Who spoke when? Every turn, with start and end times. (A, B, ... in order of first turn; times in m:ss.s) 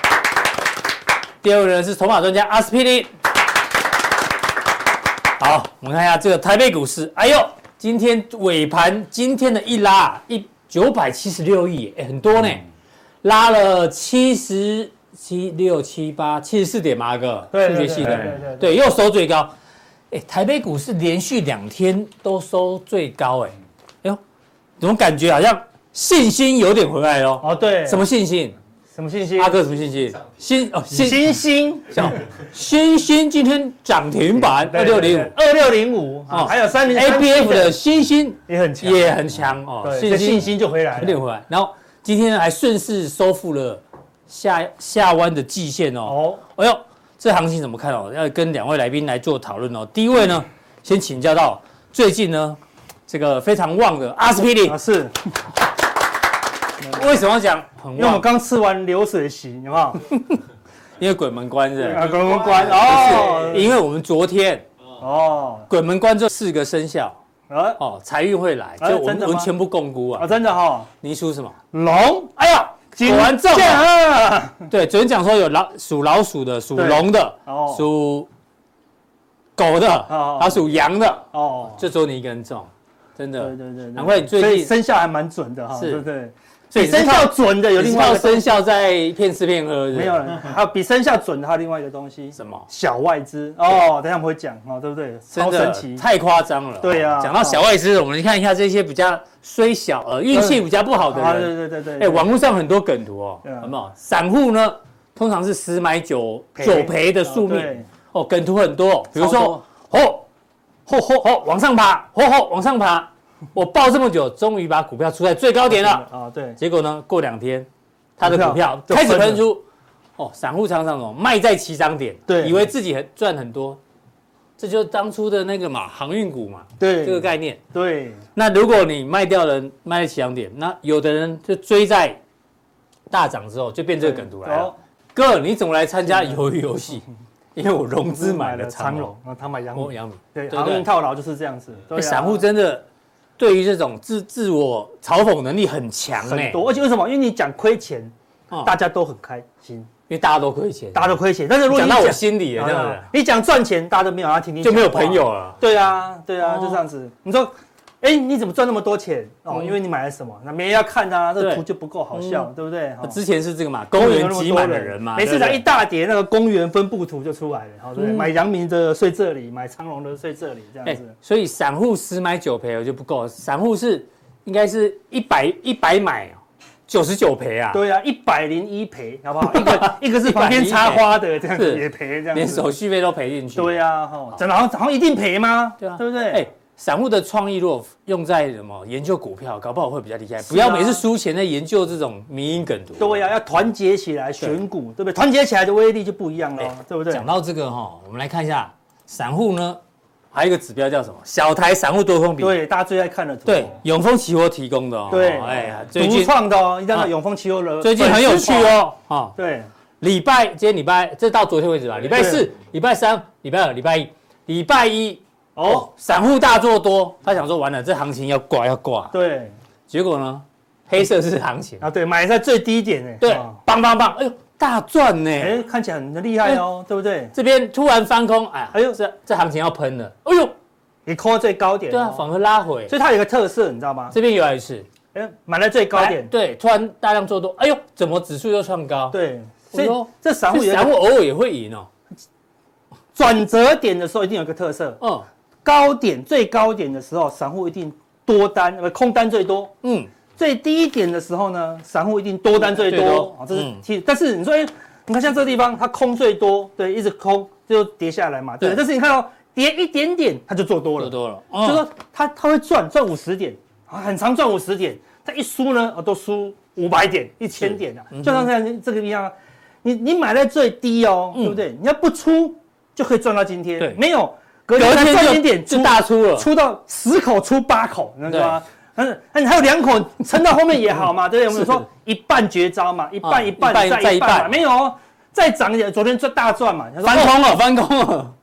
0:01.4-0:03.1 A
0:05.4-0:12.6 A
0:13.2-0:19.5 A
0:17.5-0:18.8 B
0:20.1-0:24.2 A
0:24.8-0:28.6 A
0:27.4-0:28.1 B
0:28.9-0:29.6 B
0:29.4-0:31.4 A
0:30.9-0:32.2 B
0:31.9-0:35.3 A
0:34.4-0:37.8 B
0:36.3-0:54.8 A
0:38.5-0:39.2 B
0:39.8-0:41.2 B
0:46.0-0:46.4 B
0:54.6-0:55.4 B
0:56.8-0:58.3 A
0:58.0-1:00.2 B
1:01.0-1:04.7 A
1:01.8-1:03.8 B
1:05.0-1:05.7 B
1:05.7-1:07.2 A
1:07.5-1:07.8 B
1:07.8-1:10.4 A
1:08.8-1:09.5 B
1:10.2-1:10.9 B
1:11.0-1:11.6 A
1:11.7-1:14.7 B
1:13.0-1:13.9 A
1:14.7-1:18.3 A
1:16.8-1:17.8 B
1:19.6-1:21.3 A
1:20.1-1:20.6 B
1:21.3-1:21.9 B
1:21.8-1:24.7 A
1:23.4-1:28.5 B
1:25.8-1:26.0 A
1:26.7-1:30.3 A
1:29.9-1:36.0 B
1:32.4-1:32.7 A
1:35.3-1:50.2 A
1:36.8-1:37.6 B
1:40.3-1:42.3 B
1:43.4-1:43.7 B
1:46.6-1:47.9 B
1:49.2-1:49.6 B
1:50.9-1:51.3 B
1:51.2-1:56.0 A
1:55.7-1:56.6 B
1:56.6-1:59.6 A
1:58.2-1:59.5 B
2:00.2-2:03.8 A
2:02.3-2:02.7 B
2:04.6-2:07.6 A
2:06.8-2:08.2 B
2:08.4-2:12.2 A
2:13.1-2:17.0 A
2:14.0-2:14.8 B
2:16.1-2:16.4 B
2:17.6-2:19.1 A
2:18.0-2:22.5 B
2:19.8-2:20.9 A
2:21.9-2:22.9 A
2:23.4-2:26.6 A
2:26.2-2:29.9 B
2:28.5-2:28.8 A
2:30.1-2:33.1 A
2:30.9-2:43.2 B
2:34.6-2:35.6 A
2:36.4-2:36.8 A
2:41.4-2:42.5 A
2:43.0-2:45.6 A
2:43.9-2:51.2 B
2:48.0-2:48.3 A
2:50.8-2:57.8 A
2:57.7-3:02.7 B
2:59.4-3:03.8 A
3:03.5-3:06.5 B
3:05.8-3:13.3 A
3:10.4-3:11.0 B
3:13.0-3:17.3 B
3:16.6-3:19.8 A
3:20.3-3:22.6 A
3:22.4-3:23.8 B
3:23.5-3:26.4 A
3:25.1-3:28.8 B
3:27.8-3:29.4 A
3:29.4-3:29.7 B
3:30.0-3:39.1 A
3:32.1-3:32.5 B
3:35.6-3:35.9 B
3:39.1-3:39.5 B
3:39.9-3:41.8 A
3:41.8-3:43.6 B
3:43.2-3:45.6 A
3:45.4-3:47.3 B
3:47.3-3:50.6 A
3:48.7-3:49.0 B
3:51.1-3:52.2 B
3:51.9-3:52.9 A
3:52.9-3:54.2 B
3:54.1-3:54.9 A
3:55.1-3:56.3 B
3:55.9-3:59.2 A
3:59.1-4:01.0 B
3:59.7-4:01.9 A
4:03.2-4:05.0 B
4:05.0-4:05.3 A
4:05.6-4:09.7 B
4:09.8-4:10.1 A
4:10.4-4:47.5 B
4:12.6-4:13.8 A
4:21.0-4:21.8 A
4:27.6-4:28.5 A
4:34.8-4:36.5 A
4:38.3-4:38.6 A
4:41.5-4:41.8 A
4:43.2-4:44.5 A
4:47.0-4:48.4 A